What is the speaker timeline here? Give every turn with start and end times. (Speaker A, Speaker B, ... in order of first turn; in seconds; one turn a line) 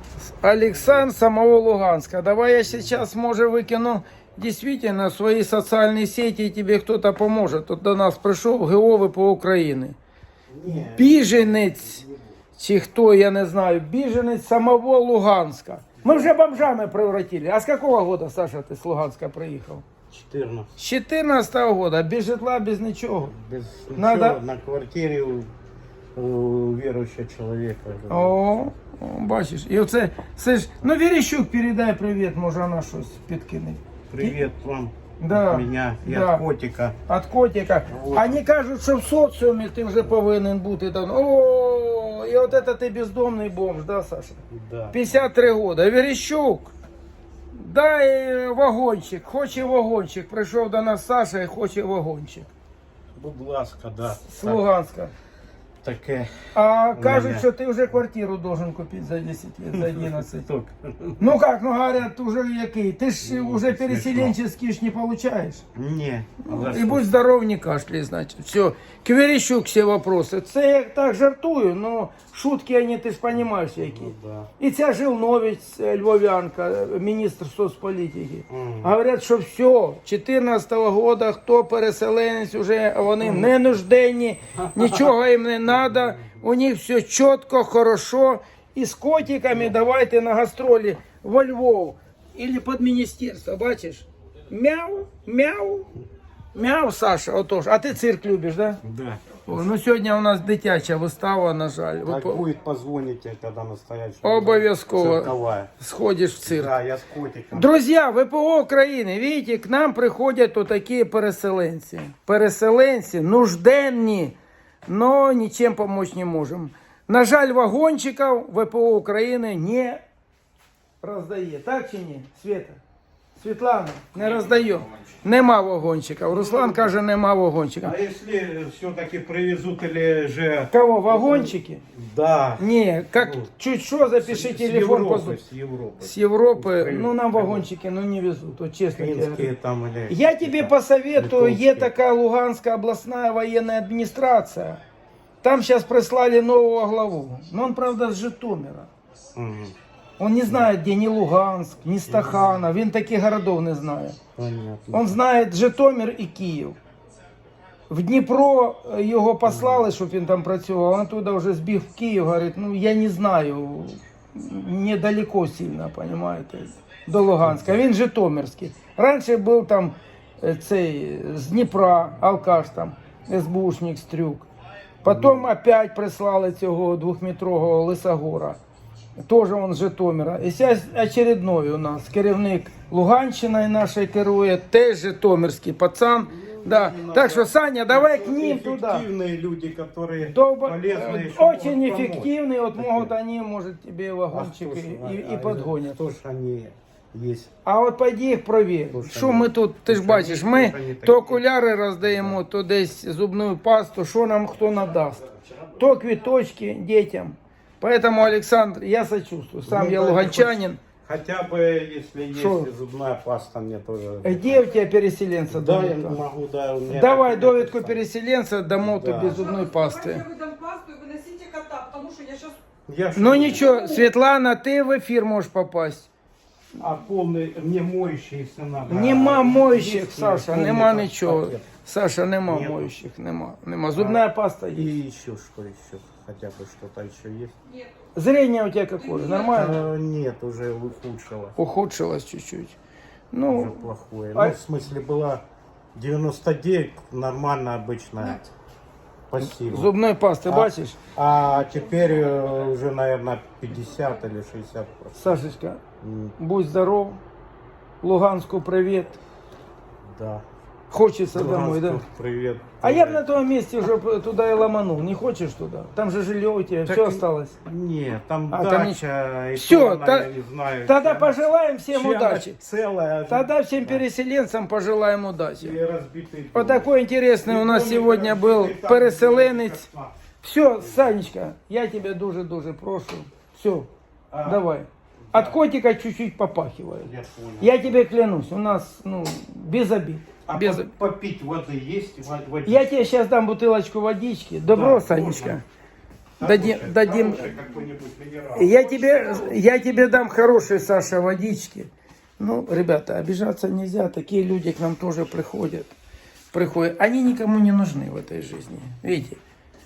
Speaker A: 0.3-10.0
Speaker B: 0.8-1.1
Speaker B: 2.7-3.0
Speaker B: 10.5-12.3
Speaker A: 10.7-12.0
Speaker A: 12.6-19.9
Speaker B: 16.0-16.3
Speaker B: 20.1-20.7
Speaker A: 20.8-23.3
Speaker B: 23.3-25.5
Speaker A: 23.9-24.4
Speaker B: 26.2-28.7
Speaker A: 28.1-34.4
Speaker B: 34.1-37.0
Speaker A: 35.2-36.4
Speaker A: 37.1-44.4
Speaker B: 37.9-38.4
Speaker B: 44.5-45.4
Speaker A: 44.9-46.7
Speaker A: 47.5-52.5
Speaker B: 53.2-54.6
Speaker A: 54.2-55.1
Speaker B: 55.8-57.5
Speaker A: 56.5-60.5
Speaker B: 59.7-61.3
Speaker A: 61.2-65.6
Speaker B: 63.2-64.3
Speaker B: 65.7-67.1
Speaker A: 66.4-95.9
Speaker B: 73.7-74.5
Speaker B: 78.5-78.9
Speaker B: 84.8-85.1
Speaker B: 85.8-86.4
Speaker A: 96.5-98.8
Speaker B: 98.8-99.2
Speaker A: 99.5-102.5
Speaker B: 102.0-105.7
Speaker A: 104.2-106.7
Speaker B: 106.4-107.7
Speaker A: 107.5-114.4
Speaker A: 114.9-120.0
Speaker A: 121.0-122.8
Speaker A: 123.4-128.0
Speaker B: 126.3-127.0
Speaker B: 127.8-133.5
Speaker A: 130.7-131.8
Speaker A: 132.6-135.4
Speaker B: 134.1-137.7
Speaker A: 136.0-139.5
Speaker B: 138.9-141.9
Speaker A: 140.1-144.8
Speaker A: 145.4-148.9
Speaker B: 149.3-149.7
Speaker A: 150.2-154.2
Speaker B: 152.1-152.5
Speaker B: 154.3-155.2
Speaker A: 154.9-156.8
Speaker A: 157.9-174.5
Speaker B: 159.4-159.8
Speaker B: 167.4-167.7
Speaker B: 175.0-175.5
Speaker A: 175.0-178.6
Speaker A: 179.2-189.1
Speaker B: 186.3-193.1
Speaker A: 190.2-196.0
Speaker B: 194.3-197.5
Speaker A: 197.7-210.8
Speaker B: 198.9-201.4
Speaker B: 202.0-202.4
Speaker B: 209.7-214.8
Speaker A: 212.3-212.7
Speaker A: 214.2-216.2
Speaker B: 215.5-218.1
Speaker A: 216.9-220.3
Speaker B: 218.8-219.5
Speaker C: 220.1-222.6
Speaker B: 222.9-223.7
Speaker A: 223.2-226.1
Speaker B: 226.8-231.7
Speaker A: 228.9-234.9
Speaker B: 232.5-232.9
Speaker B: 234.0-234.2
Speaker B: 234.8-237.6
Speaker A: 238.2-239.8
Speaker B: 239.5-241.6
Speaker A: 241.6-242.8
Speaker A: 243.3-244.6
Speaker B: 243.5-245.4
Speaker B: 245.9-248.5
Speaker B: 249.3-249.9
Speaker A: 249.4-251.0
Speaker B: 250.5-255.3
Speaker A: 255.2-255.8
Speaker B: 256.0-256.3
Speaker A: 256.4-257.2
Speaker A: 258.0-259.2
Speaker B: 260.1-260.4
Speaker A: 260.9-262.0
Speaker B: 261.3-263.3
Speaker A: 262.8-267.6
Speaker B: 266.9-274.0
Speaker A: 268.5-269.0
Speaker A: 269.5-270.3
Speaker A: 270.9-272.6
Speaker A: 273.3-275.8
Speaker B: 275.6-276.9
Speaker A: 276.5-279.9
Speaker B: 277.4-280.2
Speaker A: 280.4-283.9
Speaker B: 284.3-284.6
Speaker A: 284.4-287.1
Speaker B: 285.3-285.6
Speaker B: 287.0-288.0
Speaker A: 287.6-290.9
Speaker B: 290.5-292.9
Speaker A: 292.7-295.6
Speaker B: 294.7-295.6
Speaker B: 296.4-299.6
Speaker A: 296.4-297.5
Speaker A: 298.5-305.9
Speaker A: 306.5-309.4